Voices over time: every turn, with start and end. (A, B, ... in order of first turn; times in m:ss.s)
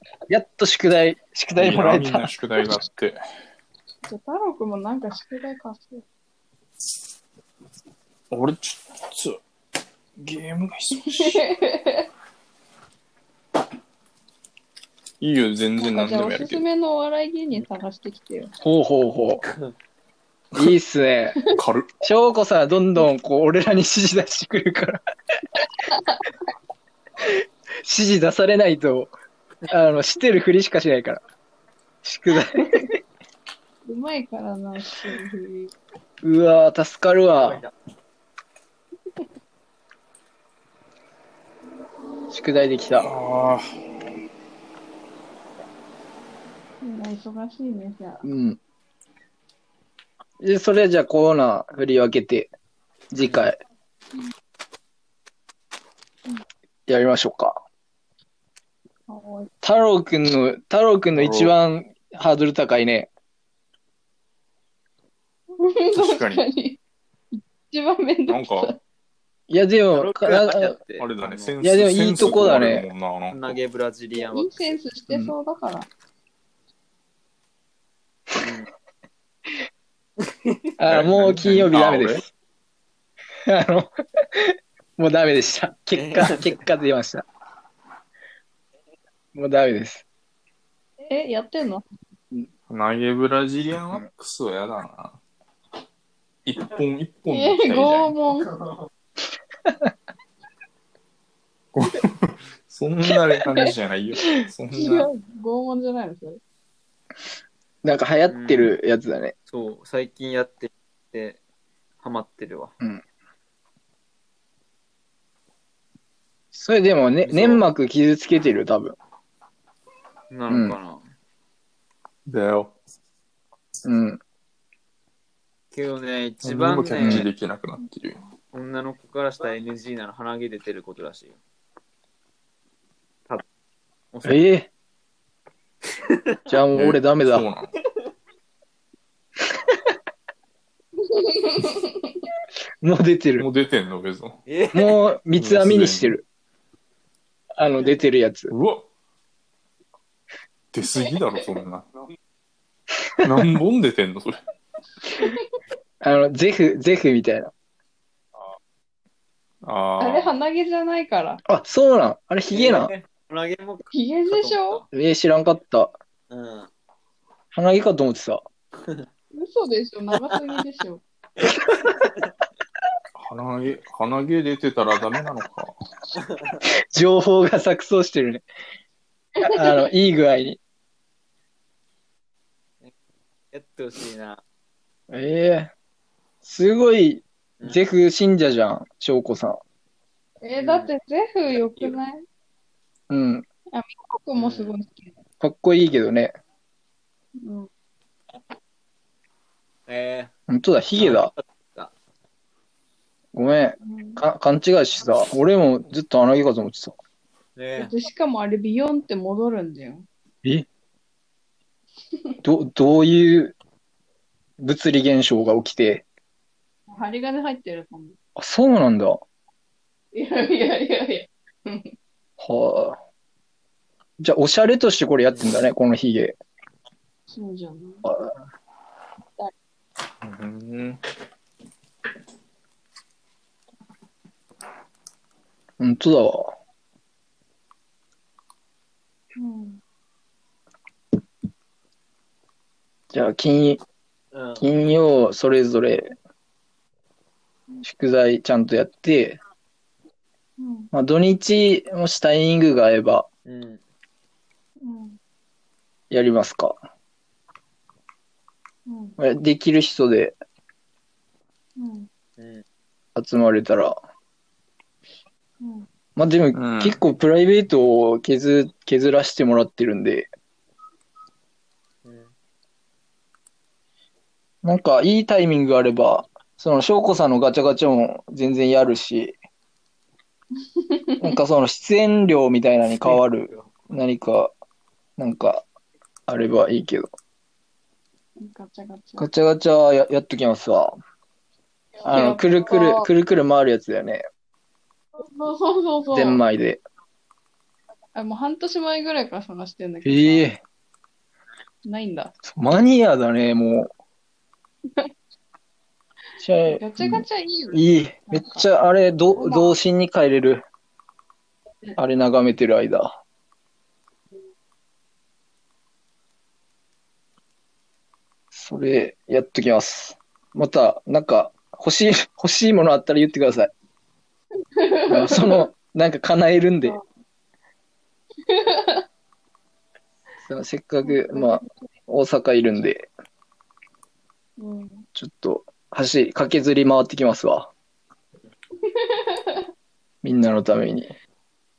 0:00.3-0:02.3 A
0:01.6-0:03.2 B
0:04.1-0:06.0 C
0:08.3-0:09.4 B
0:10.2-0:11.4 B
0:11.1-0:12.1 C
0:15.2-0:16.6 B
0:15.8-0:18.5 C
0:18.6-0:19.4 A
0:19.4-0:19.7 D
0:20.5-0:21.4 A
0:21.5-0:21.9 B
0:22.0-0:25.0 A
0:25.9-0:26.2 C
0:27.2-0:29.1 A
0:29.7-0:31.2 A
0:32.0-0:32.9 A
0:33.8-0:35.7 C
0:36.2-0:37.6 A
0:37.4-0:37.7 D
0:42.3-0:43.1 A
0:43.0-0:43.6 B
0:46.8-0:48.2 C
0:48.2-0:48.6 A
0:50.4-0:52.5 A
0:53.1-0:53.6 A
0:53.2-0:53.5 D
0:56.9-0:57.6 A
0:59.1-0:59.5 C
0:59.6-1:03.1 A
1:01.1-1:01.5 B
1:05.6-1:06.8 C
1:05.9-1:06.4 B
1:07.3-1:08.8 C
1:08.3-1:08.7 B
1:09.5-1:10.8 A
1:09.9-1:11.5 D
1:11.0-1:13.6 B
1:11.6-1:12.9 A
1:13.3-1:14.8 D
1:14.2-1:15.9 C
1:15.1-1:15.3 A
1:18.4-1:18.7 D
1:20.2-1:20.6 D
1:20.8-1:22.3 A
1:20.9-1:22.2 B
1:23.4-1:27.2 A
1:25.9-1:26.6 D
1:29.3-1:30.0 A
1:31.0-1:31.8 C
1:32.7-1:35.2 B
1:36.4-1:38.2 B
1:37.3-1:38.5 C
1:41.7-1:45.1 B
1:44.3-1:46.4 C
1:47.8-1:49.3 A
1:48.3-1:48.7 D
1:49.5-1:51.4 D
1:52.0-1:52.7 D
1:56.5-1:59.0 A
1:57.2-1:57.6 D
2:00.3-2:01.0 D
2:00.5-2:00.8 A
2:02.3-2:02.7 B
2:03.8-2:04.2 A
2:05.7-2:07.3 D
2:06.4-2:08.2 B
2:07.0-2:07.3 A
2:08.5-2:11.4 D
2:14.1-2:14.4 D
2:14.2-2:14.7 A
2:16.0-2:16.4 D
2:16.5-2:17.5 A
2:16.7-2:17.7 B
2:21.0-2:22.2 C
2:22.8-2:23.4 A
2:23.4-2:24.4 B
2:24.4-2:25.0 D
2:24.7-2:26.2 A
2:25.3-2:26.1 B
2:27.6-2:28.5 A
2:28.5-2:28.8 B
2:30.7-2:31.9 B
2:33.2-2:34.4 B
2:36.0-2:37.5 A
2:39.6-2:40.3 B
2:40.0-2:41.4 C
2:41.5-2:42.9 A
2:42.5-2:44.8 D
2:43.9-2:44.8 C
2:44.9-2:45.9 A
2:46.3-2:46.7 D
2:47.5-2:48.4 A
2:49.3-2:51.0 C
2:51.4-2:52.3 D
2:53.1-2:55.7 B
2:56.1-2:56.6 D
2:56.9-2:58.4 A
2:59.4-2:59.7 C
2:59.4-3:00.6 A
3:03.5-3:04.4 D
3:05.1-3:05.7 A
3:06.4-3:09.6 A
3:10.4-3:12.2 C
3:10.6-3:10.9 D
3:11.5-3:12.0 D
3:13.1-3:13.4 A
3:13.7-3:15.1 C
3:14.4-3:14.7 D
3:15.4-3:16.3 A
3:17.4-3:17.7 C
3:19.9-3:20.3 D
3:20.5-3:21.3 A
3:20.9-3:21.9 D
3:23.3-3:27.0 A
3:23.8-3:24.2 C
3:27.6-3:27.9 D
3:27.8-3:30.0 C
3:32.1-3:32.4 C
3:32.4-3:33.5 A
3:34.6-3:36.0 A
3:36.9-3:38.2 C
3:38.4-3:39.2 A
3:40.1-3:41.9 C
3:42.4-3:43.0 A
3:44.2-3:46.4 A
3:47.3-3:48.1 C
3:48.0-3:48.3 A
3:50.2-3:51.0 B
3:55.8-3:56.5 A
3:59.4-3:59.8 C
4:03.1-4:03.8 A
4:04.3-4:04.7 D
4:04.6-4:06.1 A
4:07.8-4:09.4 A
4:10.6-4:10.9 C
4:10.9-4:13.3 A
4:13.4-4:13.8 D
4:14.8-4:15.2 C
4:16.1-4:16.8 A
4:18.9-4:19.2 C
4:19.2-4:20.4 A
4:21.8-4:22.1 C
4:22.4-4:22.6 D
4:23.2-4:24.0 A
4:25.6-4:25.9 C
4:26.2-4:30.3 A
4:26.5-4:27.0 B
4:32.0-4:32.3 D
4:34.6-4:39.4 A
4:40.7-4:41.4 C
4:41.2-4:44.5 A
4:43.0-4:43.7 D
4:45.2-4:45.6 A
4:46.3-4:47.1 A
4:48.4-4:49.3 C
4:49.2-4:51.0 A
4:52.0-4:53.1 C
4:52.0-4:54.2 A
4:55.2-4:56.4 C
4:56.1-4:56.8 A
4:58.1-5:00.5 C
5:00.0-5:00.6 A
5:01.8-5:02.3 C
5:02.4-5:03.9 A
5:06.4-5:10.6 A
5:06.8-5:08.7 C
5:09.3-5:09.8 C
5:12.0-5:13.2 A
5:18.5-5:23.7 A
5:24.8-5:25.7 C
5:25.1-5:27.0 A
5:28.4-5:29.0 C
5:30.5-5:33.1 A
5:31.0-5:31.9 C
5:34.6-5:35.0 C
5:35.1-5:37.7 A
5:38.8-5:39.6 C
5:40.2-5:41.1 A